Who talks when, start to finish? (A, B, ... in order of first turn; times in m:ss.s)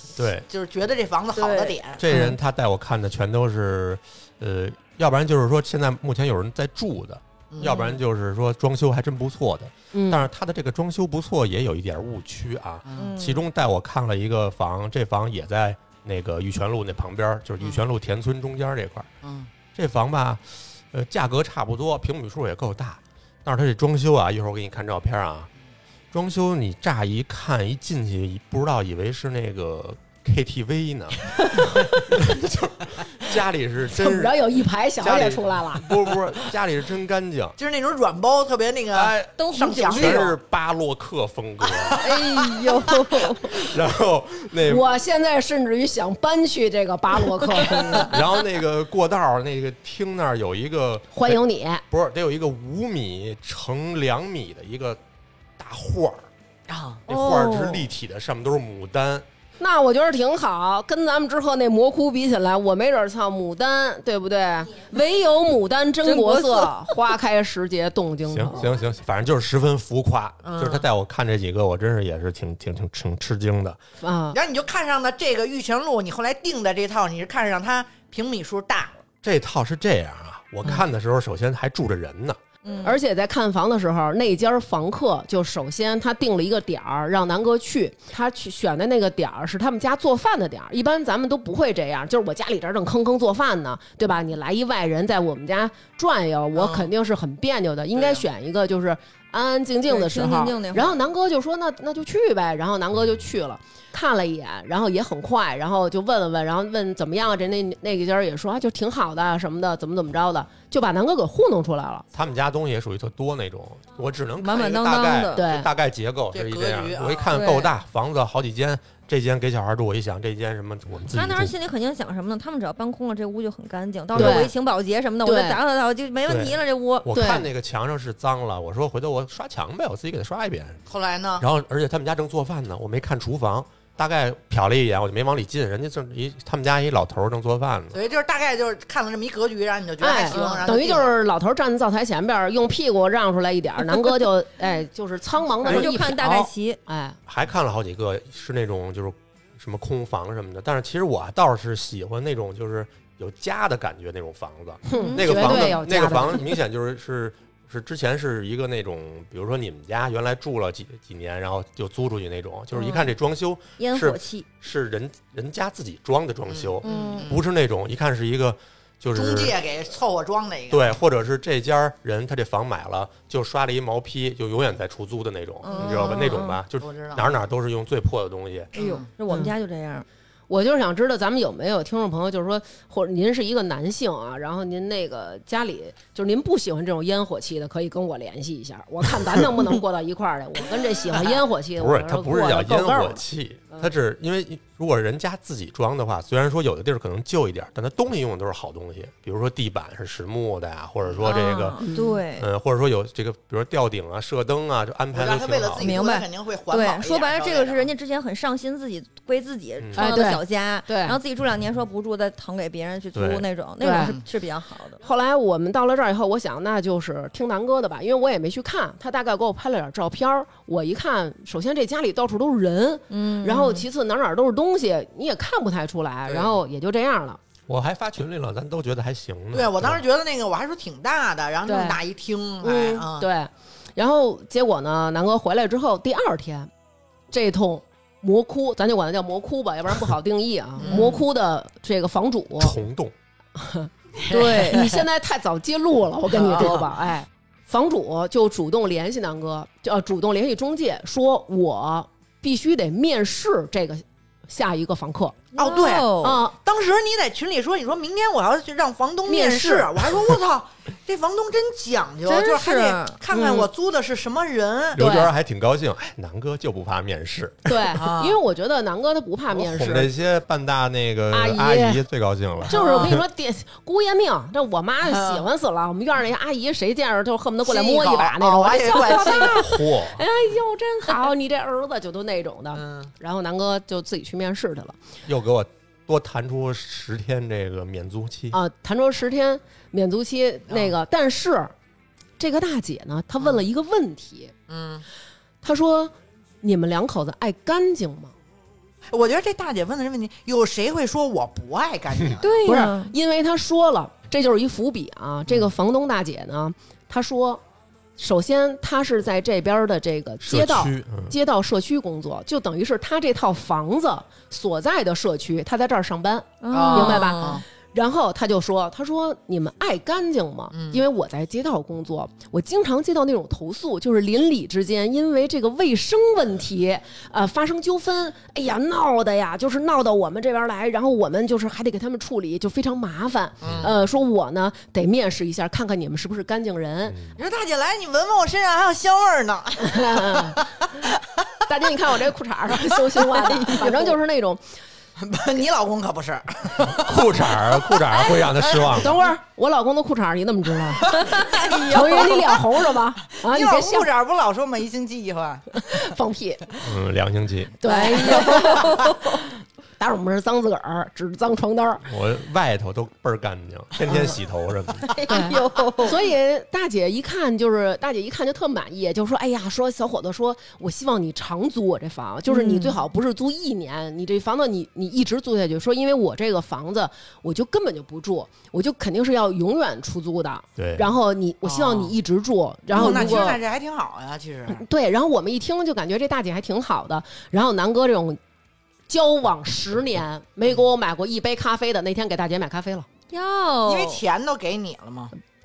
0:00.2-0:00.5 A
0:00.5-0:02.0 B
0:01.3-0:01.8 C
0:02.0-0:19.1 A
0:02.1-0:02.4 D
0:07.5-0:07.8 B
0:07.6-0:08.0 C
0:09.9-0:10.3 D
0:13.0-0:13.4 C
0:17.6-0:17.8 B
0:19.2-0:19.5 B
0:19.7-0:25.5 A
0:26.1-0:34.4 A
0:33.9-0:36.0 D
0:35.0-0:37.6 A
0:37.6-0:40.3 B
0:38.9-0:42.0 A
0:39.4-0:40.3 C
0:41.8-0:42.2 B
0:42.0-0:43.5 C
0:43.5-0:44.9 A
0:44.6-0:48.2 D
0:48.1-0:55.0 A
0:51.1-0:51.8 D
0:55.6-0:56.3 A
0:56.7-0:57.0 B
0:57.1-0:59.2 A
0:57.1-0:57.9 C
0:59.6-1:08.7 D
1:06.0-1:06.9 C
1:08.3-1:13.8 A
1:10.4-1:10.8 B
1:14.0-1:14.4 D
1:14.3-1:19.0 B
1:19.2-1:22.4 A
1:22.6-1:23.0 C
1:22.8-1:52.0 D
1:36.5-1:36.9 B
1:37.9-1:38.2 B
1:39.9-1:41.0 C
1:52.1-2:01.5 A
1:54.4-1:55.4 C
1:55.3-1:55.7 D
1:56.3-1:57.3 B
1:57.3-1:57.7 C
2:01.1-2:07.1 C
2:04.1-2:04.4 A
2:04.1-2:04.5 D
2:05.2-2:05.6 D
2:06.2-2:10.8 A
2:07.1-2:07.5 D
2:10.9-2:11.4 B
2:11.4-2:18.0 A
2:17.9-2:21.1 B
2:20.0-2:27.2 D
2:20.3-2:20.7 C
2:25.6-2:26.8 C
2:27.3-2:49.6 A
2:34.8-2:36.6 D
2:34.9-2:35.8 C
2:42.7-2:43.1 C
2:43.8-2:44.4 C
2:46.5-2:47.4 B
2:46.8-2:47.3 C
2:49.1-2:50.9 B
2:50.7-2:58.7 A
2:55.6-2:56.6 C
2:55.7-2:57.4 B
2:58.7-2:59.0 B
2:58.7-3:00.0 C
3:00.5-3:13.9 D
3:11.8-3:21.8 A
3:21.0-3:21.3 B
3:21.2-3:22.5 C
3:21.8-3:22.2 D
3:22.4-3:26.0 A
3:25.1-3:27.9 B
3:25.8-3:35.0 C
3:29.8-3:30.1 A
3:30.0-3:31.2 D
3:33.1-3:33.4 A
3:33.8-3:34.1 D
3:34.0-3:34.2 B
3:35.0-3:47.4 D
3:43.1-3:43.8 C
3:46.2-3:46.5 B
3:47.7-3:50.0 A
3:49.5-3:53.3 B
3:51.6-3:52.0 D
3:52.6-3:56.7 D
3:57.3-4:02.8 D
4:00.8-4:01.2 B
4:00.8-4:01.2 C
4:02.6-4:03.1 A
4:03.6-4:03.9 D
4:04.2-4:05.0 B
4:04.3-4:04.8 C
4:04.5-4:15.5 D
4:06.3-4:06.9 B
4:15.5-4:16.4 C
4:15.6-4:25.0 B
4:16.2-4:16.5 D
4:19.2-4:20.0 D
4:22.2-4:23.2 C
4:23.3-4:23.7 D
4:24.9-4:27.9 A
4:25.0-4:25.3 D
4:27.6-4:30.1 D
4:27.9-4:28.4 B
4:29.5-4:33.2 A
4:31.3-4:32.0 D
4:32.7-4:45.0 D
4:32.7-4:33.2 B
4:35.0-4:35.5 B
4:37.6-4:39.7 B
4:39.4-4:40.2 A
4:42.7-4:43.1 B
4:45.2-4:48.6 A
4:48.5-4:51.7 D
4:50.7-4:50.9 B
4:52.4-4:54.5 D
4:54.7-4:55.0 B
4:55.6-4:58.3 D
4:59.1-5:02.7 B
5:02.4-5:03.1 C
5:02.6-5:07.6 D
5:08.2-5:37.2 D
5:10.4-5:11.4 A
5:16.6-5:17.6 C
5:16.7-5:17.6 B
5:20.7-5:21.0 B
5:33.6-5:33.9 B
5:33.7-5:33.9 A
5:37.0-5:37.4 A
5:37.4-5:41.4 B
5:39.8-5:40.6 D
5:41.7-5:44.6 D
5:43.3-5:44.1 C
5:45.2-5:49.1 B
5:46.9-5:49.2 A
5:48.9-5:51.1 D
5:51.0-5:52.6 B
5:51.2-5:52.3 C
5:51.9-5:54.1 D
5:53.3-5:55.8 B
5:55.8-5:56.8 D
5:56.8-5:57.8 A
5:57.8-6:02.0 D
5:57.8-5:59.3 C
6:02.0-6:05.1 A
6:05.1-6:06.2 C
6:05.3-6:23.6 D
6:12.5-6:13.0 C
6:20.8-6:21.2 A
6:21.6-6:22.2 B
6:22.9-6:24.8 B
6:22.9-6:23.5 C
6:24.7-6:28.4 D
6:29.1-6:33.0 D
6:33.3-6:34.2 C
6:33.8-6:35.3 B